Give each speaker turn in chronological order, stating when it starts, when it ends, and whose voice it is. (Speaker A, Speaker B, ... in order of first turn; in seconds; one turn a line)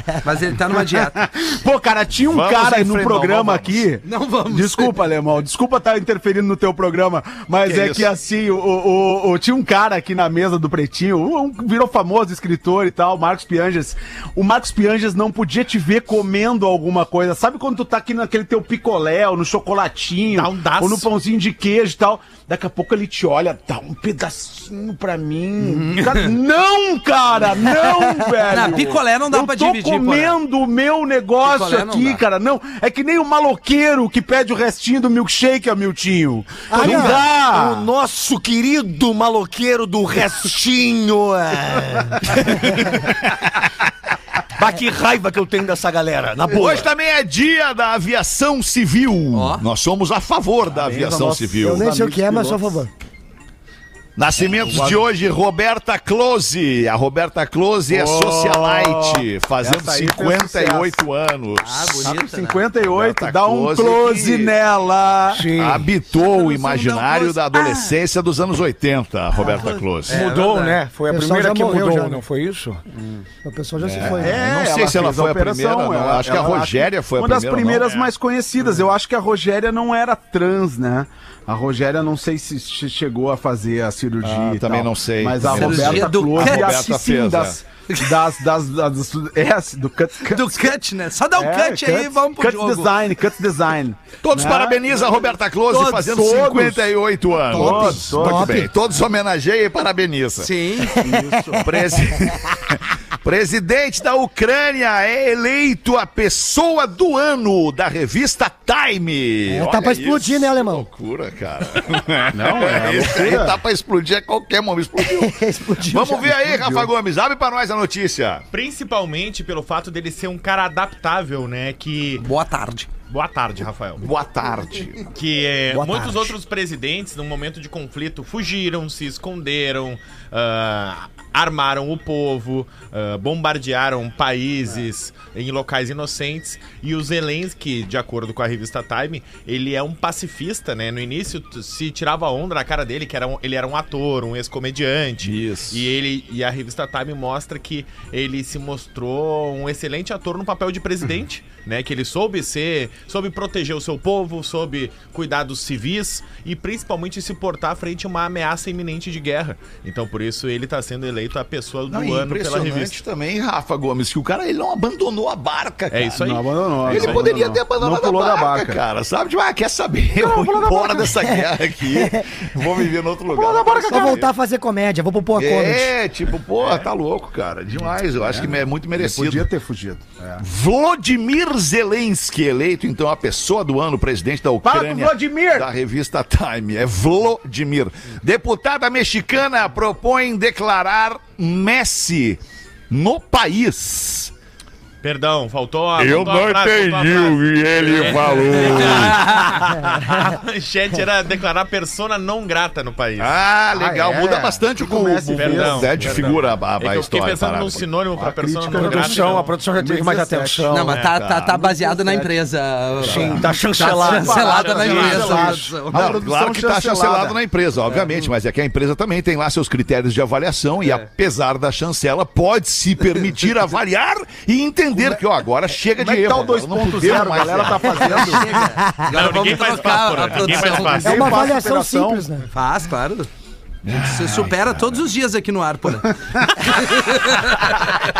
Speaker A: 0.2-1.2
Speaker B: 0.8-37.9
Speaker C: 2.3-3.6
Speaker D: 2.4-3.3
Speaker A: 4.0-5.0
Speaker A: 7.7-8.0
Speaker C: 20.3-21.1
Speaker A: 25.6-26.3
Speaker A: 28.5-30.4
Speaker A: 31.4-32.2
Speaker E: 36.7-37.2
Speaker F: 36.8-43.0
Speaker F: 44.5-46.8
Speaker D: 46.5-51.9
Speaker A: 49.3-49.6
Speaker B: 50.7-52.8
Speaker E: 51.6-52.9
Speaker D: 54.1-62.1
Speaker B: 54.6-55.0
Speaker B: 57.9-61.0
Speaker A: 61.6-62.7
Speaker B: 62.0-65.5
Speaker D: 62.8-64.6
Speaker F: 65.3-65.9
Speaker D: 65.5-70.2
Speaker A: 66.1-67.9
Speaker A: 69.4-70.8
Speaker F: 70.1-72.8
Speaker E: 71.1-72.2
Speaker B: 73.0-73.2
Speaker E: 73.4-74.4
Speaker D: 73.8-77.9
Speaker B: 74.0-90.7
Speaker C: 77.8-78.1
Speaker D: 84.2-87.6
Speaker A: 85.5-86.9
Speaker A: 87.9-88.2
Speaker A: 90.2-93.0
Speaker B: 91.3-94.9
Speaker D: 94.2-100.5
Speaker A: 95.7-96.0
Speaker B: 95.8-96.9
Speaker B: 97.5-98.7
Speaker E: 97.5-98.7
Speaker A: 100.4-101.0
Speaker B: 101.0-102.0
Speaker D: 101.6-118.4
Speaker E: 109.5-110.9
Speaker B: 112.3-113.6
Speaker E: 115.0-116.3
Speaker B: 116.6-116.8
Speaker C: 118.5-122.2
Speaker A: 122.2-122.9
Speaker C: 123.1-124.1
Speaker D: 124.0-125.0
Speaker C: 125.1-163.0
Speaker F: 125.7-126.3
Speaker D: 145.2-145.8
Speaker D: 161.9-166.2
Speaker C: 165.9-167.5
Speaker B: 166.2-168.8
Speaker D: 166.8-174.3
Speaker E: 170.4-170.9
Speaker B: 173.5-174.1
Speaker E: 173.9-175.9
Speaker D: 175.3-179.5
Speaker B: 178.3-180.4
Speaker D: 180.4-194.3
Speaker B: 184.6-185.7
Speaker C: 195.0-203.4
Speaker D: 195.9-199.2
Speaker A: 199.1-199.5
Speaker D: 203.2-207.9
Speaker B: 203.7-206.4
Speaker C: 205.3-209.6
Speaker B: 208.2-210.8
Speaker F: 208.8-211.0
Speaker A: 210.7-216.2
Speaker C: 210.9-211.2
Speaker D: 211.1-211.6
Speaker B: 211.5-212.4
Speaker B: 213.0-217.4
Speaker F: 213.0-214.6
Speaker C: 214.3-215.5
Speaker D: 215.9-228.2
Speaker B: 224.9-225.2
Speaker B: 225.9-228.6
Speaker A: 228.0-231.2
Speaker C: 229.1-231.3
Speaker B: 231.0-232.2
Speaker E: 231.0-232.5
Speaker A: 232.5-233.3
Speaker D: 233.8-234.9
Speaker A: 233.9-237.9